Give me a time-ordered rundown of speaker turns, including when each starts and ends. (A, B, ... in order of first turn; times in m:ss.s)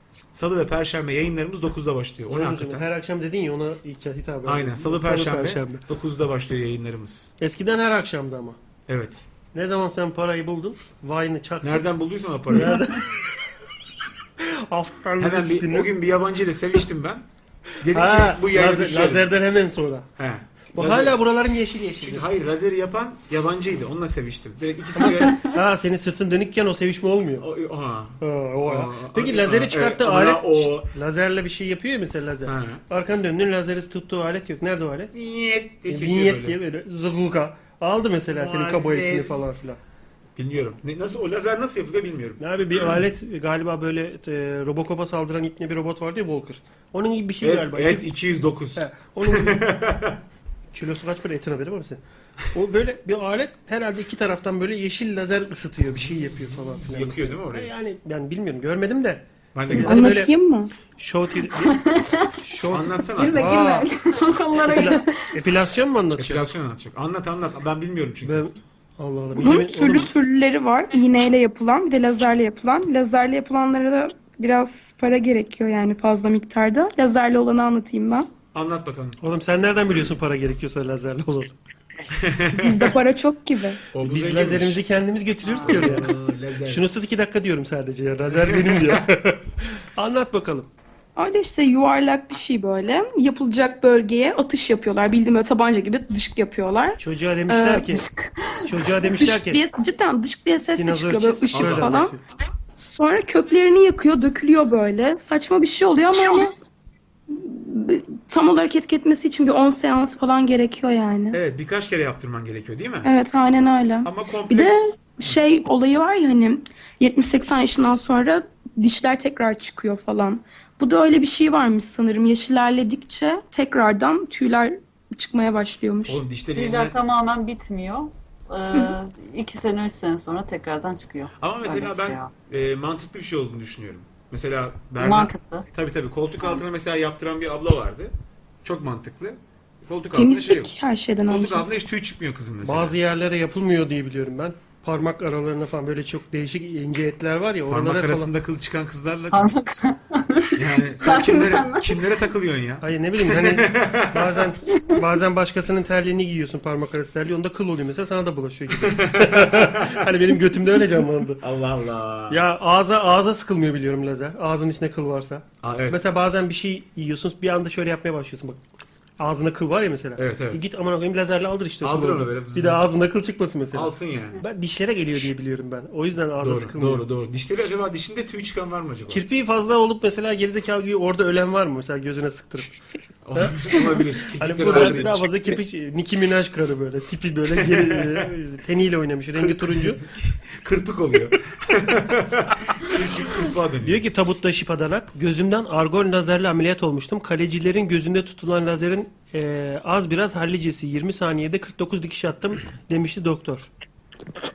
0:00.3-0:02.9 A
0:02.3-0:05.8 B
0:04.4-0:07.3 A
0:07.4-0:08.6 B
0:08.9-0:09.3 A
0:09.5-0:11.9 B
0:11.6-0:12.9 A
0:12.5-0:13.1 B
0:14.4-0:15.9 B
0:15.2-0:17.2 A
0:17.8-0:19.3 A
0:17.9-0:20.1 B
0:20.2-0:21.2 A
0:20.7-0:22.2 B
0:22.0-0:25.4 A
0:25.0-0:27.5 B
0:27.4-0:30.9 A
0:28.2-0:35.1 B
0:32.4-0:32.8 A
0:35.1-0:36.6 A
0:35.9-0:39.8 B
0:38.3-0:39.4 A
0:40.4-0:42.5 A
0:42.4-0:48.0 B
0:47.4-0:50.2 A
0:48.7-0:49.6 B
0:50.7-0:52.0 B
0:52.5-1:00.3 B
0:56.0-0:57.7 A
0:59.5-1:00.0 A
0:59.8-1:00.7 C
1:01.0-1:01.8 B
1:01.6-1:02.2 D
1:02.4-1:03.9 B
1:02.7-1:03.6 A
1:03.2-1:05.3 D
1:04.7-1:06.4 B
1:06.2-1:08.6 A
1:08.2-1:10.1 B
1:09.4-1:18.3 C
1:18.5-1:19.2 A
1:19.2-1:21.5 B
1:22.2-1:22.9 A
1:22.5-1:23.8 C
1:23.9-1:24.8 A
1:24.0-1:26.1 B
1:25.4-1:26.0 D
1:25.6-1:26.9 A
1:26.6-1:30.7 B
1:28.3-1:29.0 A
1:31.2-1:37.9 C
1:37.0-1:38.0 B
1:37.9-1:38.5 D
1:38.6-1:39.6 B
1:39.1-1:42.1 C
1:40.8-1:42.2 B
1:41.5-1:41.9 A
1:42.8-1:46.5 C
1:47.3-1:51.4 C
1:51.3-1:53.1 A
1:53.0-2:06.2 C
1:54.0-1:54.7 A
2:06.0-2:07.0 A
2:06.5-2:12.3 D
2:11.4-2:20.7 A
2:15.0-2:15.6 D
2:20.1-2:21.6 C
2:21.2-2:23.0 A
2:22.6-2:28.3 B
2:27.7-2:29.6 A
2:29.3-2:32.0 D
2:30.5-2:34.4 A
2:32.8-2:41.4 B
2:38.8-2:40.1 A
2:41.4-2:42.4 A
2:42.3-2:48.6 B
2:45.6-2:46.0 A
2:49.2-2:57.0 B
2:50.2-2:50.6 A
2:51.8-2:52.8 A
2:53.7-2:54.4 A
2:56.4-2:59.2 A
2:59.1-3:02.7 B
3:03.2-3:05.2 A
3:03.4-3:10.0 B
3:07.5-3:08.3 A
3:09.4-3:14.0 A
3:13.8-3:23.7 B